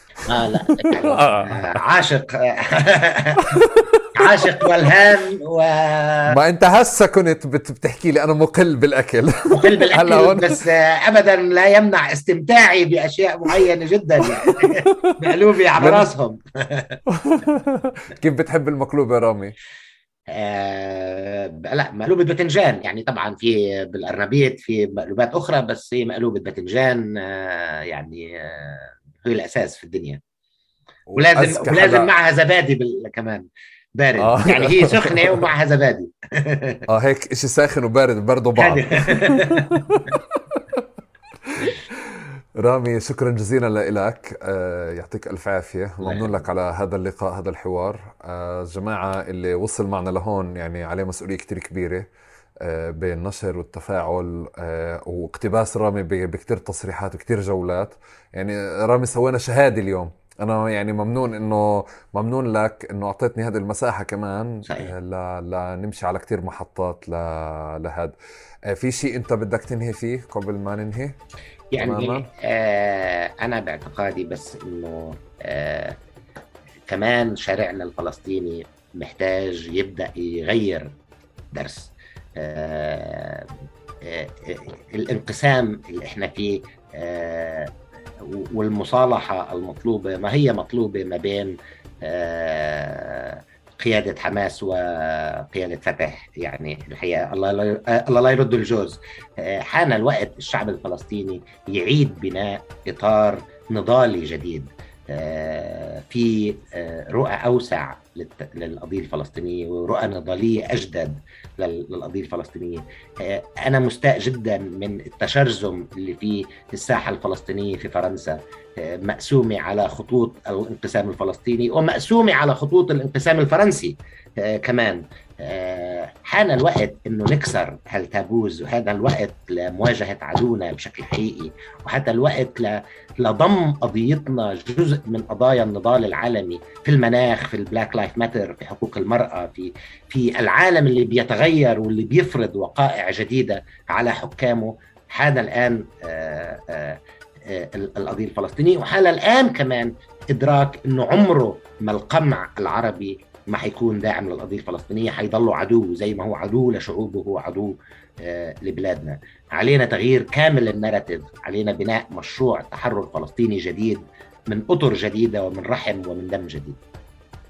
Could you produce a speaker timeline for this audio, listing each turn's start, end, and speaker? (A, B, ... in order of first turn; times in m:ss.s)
0:00.2-0:01.8 A
0:00.2-0:03.6 B
0:03.5-0:04.4 A
0:04.2-0:06.4 B
0:06.3-0:10.6 A
0:09.5-0:17.0 B
0:14.2-0:15.2 A
0:15.8-0:16.1 A
0:17.1-0:19.6 A
0:20.3-0:30.2 B
0:31.1-0:32.1 A
0:31.2-0:36.8 B
0:34.2-0:35.4 A
0:36.9-0:40.8 A
0:38.6-0:40.2 B
0:41.5-0:52.1 A
0:46.0-0:46.4 B
0:52.6-1:08.2 A
1:04.7-1:04.9 B
1:08.7-1:11.2 A
1:11.7-1:16.0 B
1:11.8-1:12.3 A
1:16.9-1:20.9 B
1:21.5-1:23.5 B
1:24.0-2:46.8 B